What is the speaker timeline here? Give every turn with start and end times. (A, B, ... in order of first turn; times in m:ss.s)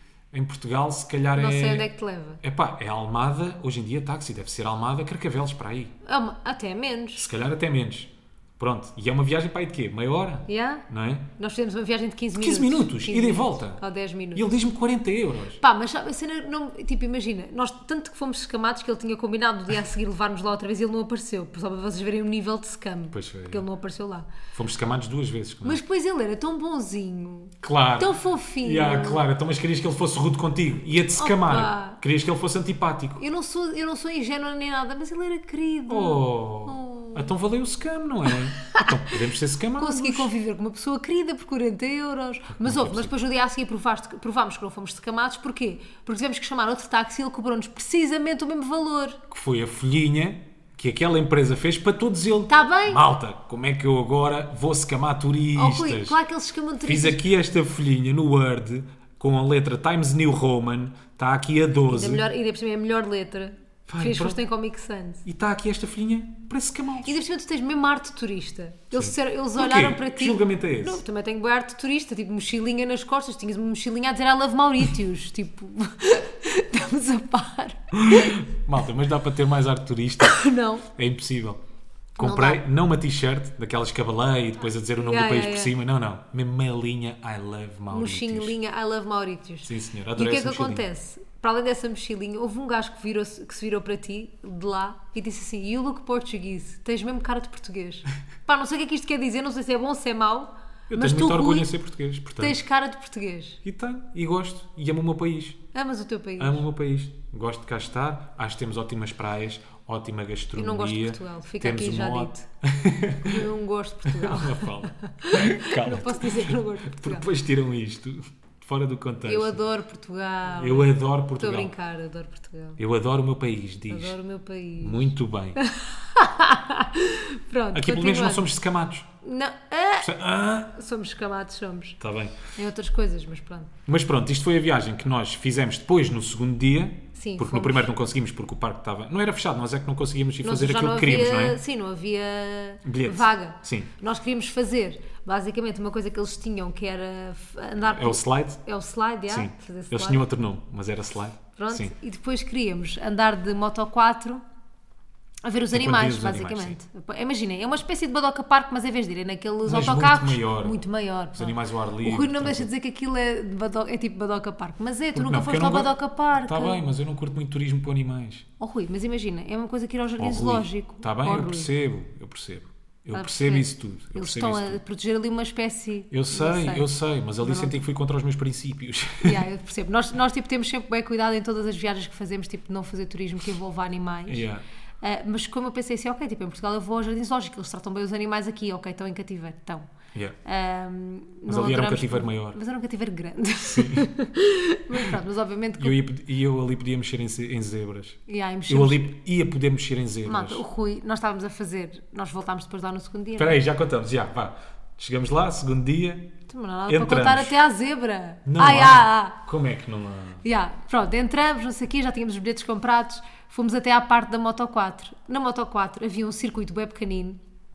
0:00.3-0:01.9 A
0:01.3-0:02.4 B
0:02.4-0:05.9 A
0:06.0-0:07.2 B
0:07.2-0:11.3 A
0:10.5-0:14.4 B
0:12.4-0:13.8 A
0:14.3-0:15.6 A
0:15.6-0:24.3 B
0:23.1-0:23.6 A
0:24.5-0:25.8 A
0:25.6-0:29.2 B
0:27.6-0:33.2 A
0:31.2-0:32.0 B
0:33.2-0:37.3 B
0:35.9-0:40.3 A
0:38.6-0:38.9 B
0:39.8-0:49.2 B
0:42.6-0:43.1 A
0:49.3-0:56.2 A
0:52.5-0:53.0 B
0:55.5-0:57.2 B
0:56.8-1:02.3 A
1:01.9-1:05.2 B
1:03.9-1:04.4 A
1:05.2-1:07.2 A
1:07.0-1:18.3 B
1:08.9-1:11.0 A
1:17.9-1:21.6 A
1:20.2-1:20.8 B
1:22.2-1:28.6 A
1:22.2-1:22.6 B
1:25.0-1:25.7 B
1:27.9-1:41.7 B
1:29.6-1:30.8 A
1:40.9-1:42.6 A
1:42.4-1:43.6 B
1:43.6-1:45.6 A
1:45.7-1:46.6 B
1:46.4-1:53.5 A
1:50.5-1:52.5 B
1:53.2-1:57.3 B
1:54.0-1:59.6 A
1:59.2-2:02.8 B
2:00.5-2:01.7 A
2:02.8-2:04.2 A
2:03.9-2:08.4 B
2:04.8-2:05.6 A
2:07.7-2:09.1 A
2:09.2-2:10.1 B
2:10.0-2:10.7 A
2:10.7-2:12.0 B
2:12.0-2:12.4 A
2:12.5-2:13.7 B
2:13.9-2:21.6 A
2:17.2-2:17.9 B
2:20.4-2:30.2 B
2:22.8-2:23.9 A
2:27.8-2:28.6 A
2:29.3-2:31.9 A
2:31.6-2:34.4 B
2:35.4-2:46.8 B
2:35.7-2:36.8 A
2:39.6-2:40.8 A
2:41.3-2:42.7 A
2:45.1-2:48.4 A
2:48.6-2:51.7 B
2:50.2-2:54.8 A
2:53.1-2:56.9 B
2:56.1-2:59.4 A
2:57.4-2:57.8 B
2:59.2-3:04.4 B
3:04.3-3:04.6 A
3:05.0-3:09.9 B
3:10.4-3:16.0 B
3:11.5-3:12.6 A
3:13.6-3:14.1 A
3:15.8-3:20.6 A
3:18.3-3:19.0 B
3:20.2-3:23.6 B
3:23.4-3:26.3 A
3:26.5-3:29.4 B
3:26.9-3:27.5 A
3:28.4-3:30.4 A
3:30.4-3:37.4 B